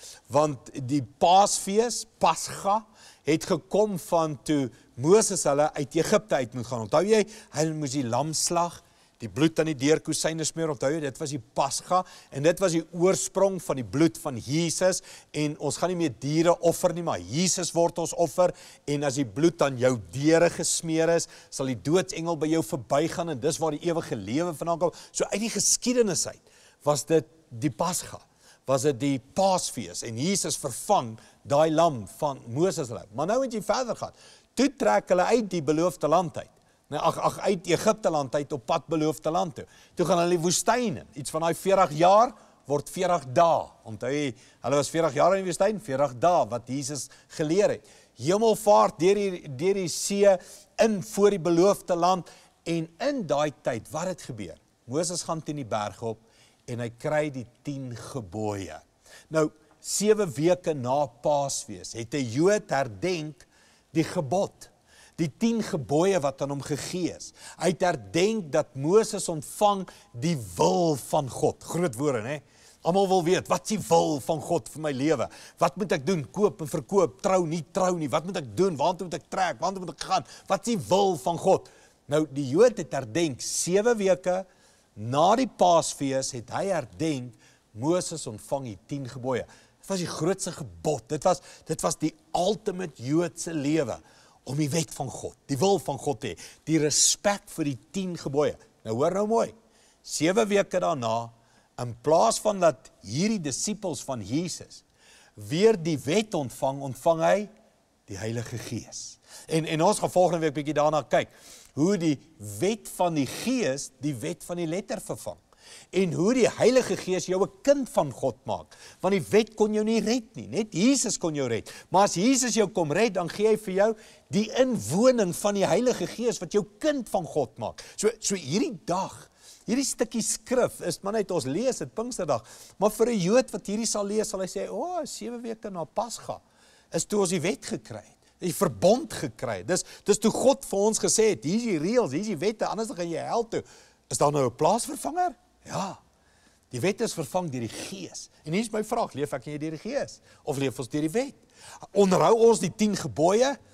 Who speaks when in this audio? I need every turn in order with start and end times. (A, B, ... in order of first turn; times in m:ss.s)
0:00.3-1:24.4 A
1:25.0-1:39.5 A
1:40.0-1:44.8 A
1:45.4-1:47.5 A
1:48.1-1:55.4 A
1:55.9-2:26.0 A
2:26.7-2:31.4 A
2:31.9-2:33.6 A